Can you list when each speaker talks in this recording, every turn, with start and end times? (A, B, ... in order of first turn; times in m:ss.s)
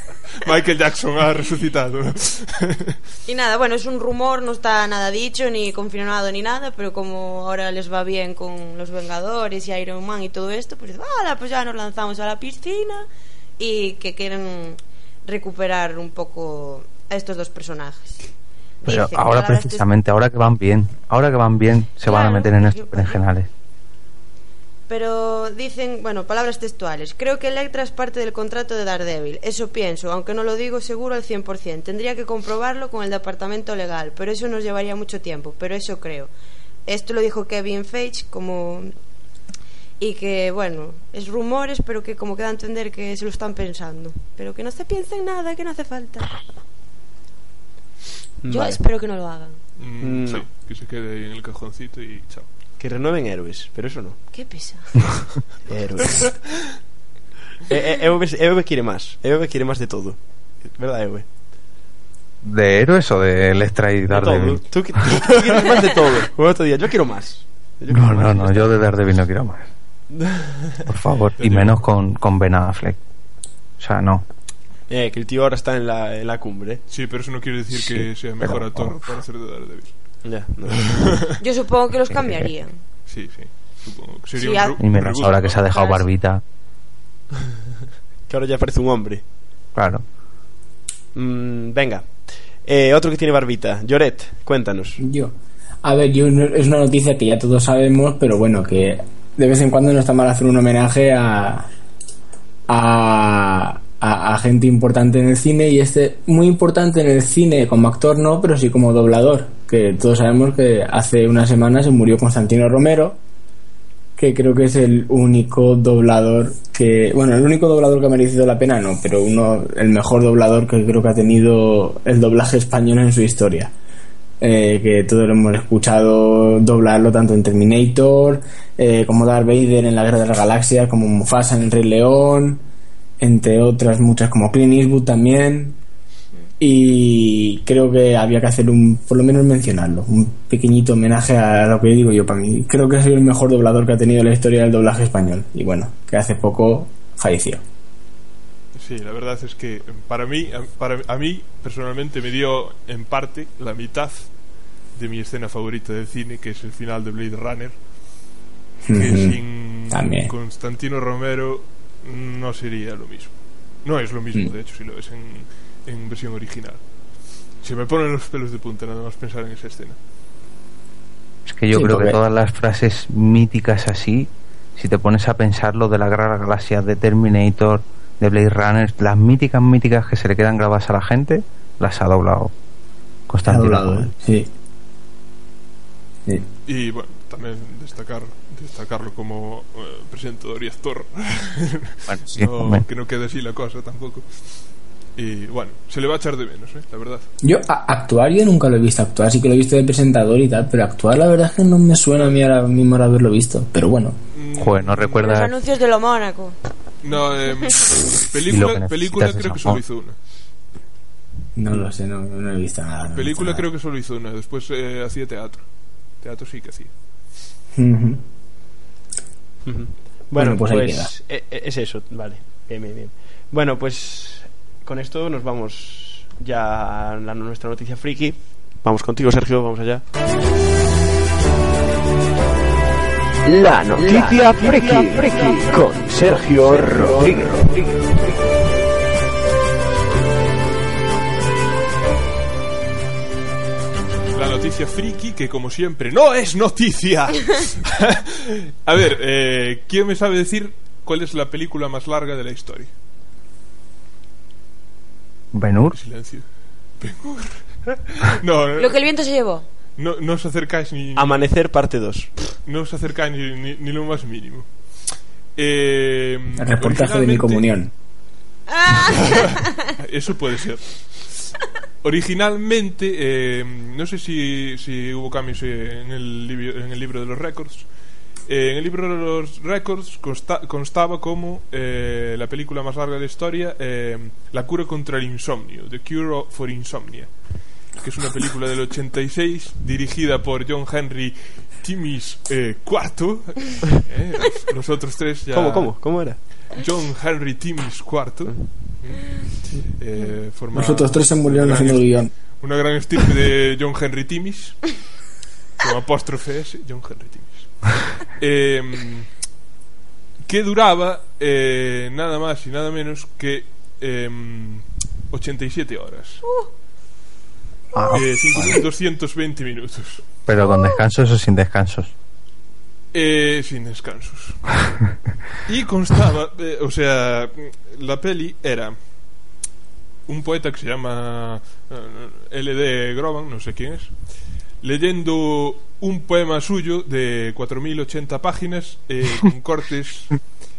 0:00.4-0:03.0 A
0:03.3-0:13.1 B
0:13.6-0:18.3 B
0:18.8-0:19.9 B
0:18.8-0:23.5 C
0:22.0-0:23.2 B
0:24.9-0:36.3 B
0:36.9-0:38.9 B
0:40.0-0:46.4 B
0:48.4-0:48.8 D
0:48.5-0:49.6 B
0:49.8-0:52.5 A
0:50.0-0:50.4 D
0:52.8-0:54.2 D
0:54.3-0:55.2 B
0:55.7-0:56.4 D
0:57.7-1:01.3 D
1:02.4-1:04.6 C
1:04.1-1:08.7 D
1:07.9-1:09.7 C
1:10.1-1:10.8 D
1:10.9-1:13.0 C
1:11.4-1:11.8 A
1:13.8-1:14.2 C
1:14.9-1:16.8 D
1:16.9-1:20.0 A
1:17.7-1:19.0 C
1:20.2-1:21.1 D
1:20.7-1:21.4 A
1:21.4-1:22.8 B
1:23.1-1:25.6 A
1:24.3-1:24.8 B
1:24.8-1:26.4 C
1:25.7-1:26.0 B
1:28.3-1:29.2 D
1:29.8-1:30.0 C
1:31.2-1:35.0 D
1:35.0-1:41.7 E
1:42.7-1:53.2 E
1:54.2-2:03.7 E
2:04.4-2:12.6 E
2:13.2-2:15.8 E
2:16.6-2:27.6 E
2:28.8-2:34.3 A
2:35.0-2:37.8 A
2:38.9-2:40.3 E
2:38.9-2:46.8 A
2:47.6-2:50.0 A
2:51.5-3:02.5 C
2:51.7-2:52.2 E
3:03.3-3:04.1 C
3:03.5-3:04.5 E
3:06.7-3:14.3 A
3:12.1-3:12.8 C
3:15.2-3:17.3 A
3:17.4-3:24.2 E
3:24.3-3:25.3 A
3:24.6-3:25.5 C
3:25.2-3:26.6 B
3:27.0-3:30.2 A
3:28.5-3:29.8 C
3:31.6-3:33.7 E
3:33.1-3:35.6 A
3:36.2-3:36.9 A
3:37.8-3:38.2 E
3:39.7-3:50.0 D
3:40.4-3:41.1 E
3:53.5-3:58.0 F
3:54.0-3:54.9 D
4:04.3-4:12.9 A
4:15.5-4:16.0 C
4:15.9-4:16.5 A
4:17.0-4:19.0 A
4:18.8-4:19.7 B
4:20.0-4:21.4 A
4:21.2-4:22.4 D
4:22.6-4:24.7 A
4:25.6-4:27.7 A
4:26.6-4:27.9 E
4:28.7-4:29.8 B
4:29.0-4:31.3 A
4:32.0-4:37.9 A
4:38.5-4:47.3 A
4:48.0-4:56.1 A
4:55.5-4:56.4 D
4:56.7-5:04.9 A
4:58.5-4:58.8 D
5:00.7-5:02.3 E
5:05.8-5:09.3 A
5:10.4-5:16.4 A
5:17.9-5:18.8 C
5:18.1-5:20.2 A
5:20.5-5:22.1 C
5:20.7-5:21.0 B
5:23.1-5:24.6 A
5:25.7-5:29.0 A
5:30.3-5:34.1 A
5:34.8-5:40.4 A